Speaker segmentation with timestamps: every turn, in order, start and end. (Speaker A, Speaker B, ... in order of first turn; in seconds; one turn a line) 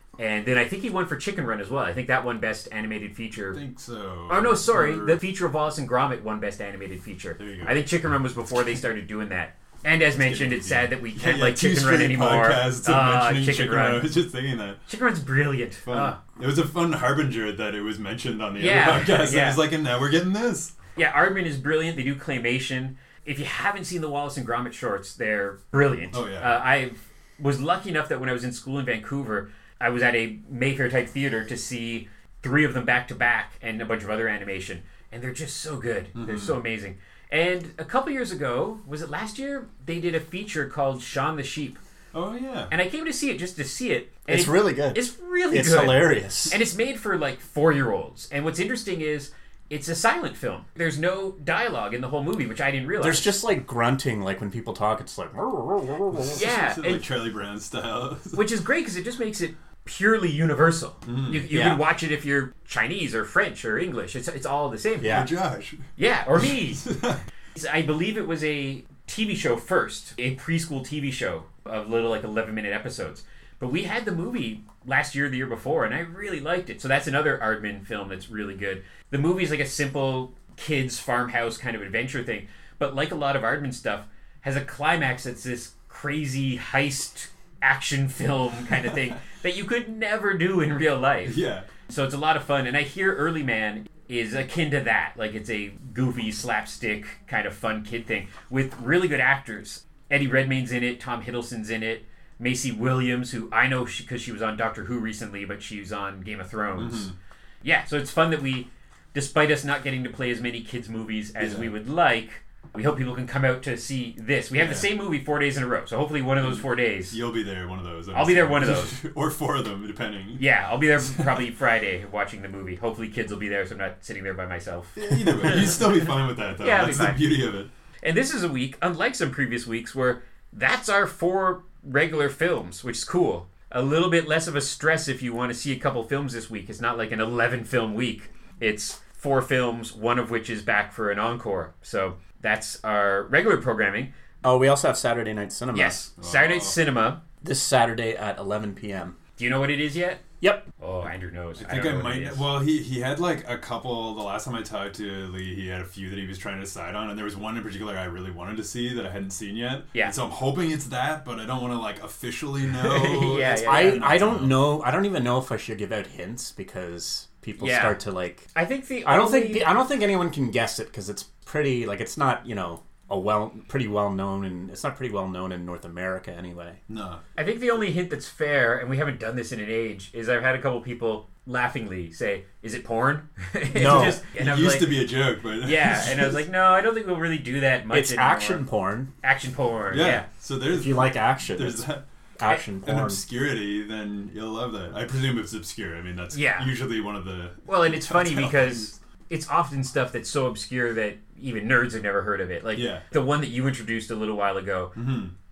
Speaker A: 0.2-3.6
Speaker B: 3.5-5.2
Speaker A: 4.3-14.1
Speaker B: 7.4-7.8
Speaker B: 10.1-14.8
Speaker A: 14.9-16.2
Speaker B: 15.8-20.7
Speaker A: 18.6-19.6
Speaker A: 20.9-41.8
Speaker B: 26.1-26.6
Speaker B: 36.1-36.6
Speaker B: 42.1-42.7
Speaker A: 42.7-53.3
Speaker C: 44.3-46.6
Speaker C: 53.0-56.4
Speaker B: 56.1-58.4
Speaker A: 56.3-57.0
Speaker A: 58.3-65.2
Speaker B: 61.0-61.5
Speaker C: 61.5-61.8
Speaker C: 65.0-65.3
Speaker B: 65.0-65.8
Speaker A: 66.0-66.9
Speaker B: 66.4-67.2
Speaker A: 67.5-107.1
Speaker B: 91.2-91.7
Speaker B: 106.8-107.1
Speaker A: 107.6-117.2
Speaker B: 111.4-111.7
Speaker B: 114.6-114.9
Speaker B: 116.4-120.5
Speaker A: 118.1-118.9
Speaker A: 120.4-126.0
Speaker B: 125.0-127.7
Speaker A: 126.6-127.3
Speaker A: 128.0-144.1
Speaker C: 144.4-146.0
Speaker A: 145.7-147.2
Speaker B: 146.2-146.8
Speaker C: 147.4-149.2
Speaker A: 149.4-150.2
Speaker C: 150.4-150.7
Speaker A: 150.8-152.4
Speaker B: 151.6-164.7
Speaker A: 162.8-164.2
Speaker C: 163.6-168.5
Speaker A: 167.6-168.0
Speaker A: 168.5-169.7
Speaker C: 169.0-176.8
Speaker B: 176.9-177.2
Speaker A: 177.3-185.1
Speaker C: 183.7-184.2
Speaker B: 183.7-186.4
Speaker A: 185.6-188.6
Speaker C: 187.9-189.1
Speaker A: 189.2-190.2
Speaker B: 189.9-192.0
Speaker C: 190.7-191.9
Speaker C: 192.4-193.2
Speaker B: 192.8-198.9
Speaker A: 196.3-196.7
Speaker A: 197.7-204.9
Speaker B: 202.7-203.0
Speaker B: 204.9-205.3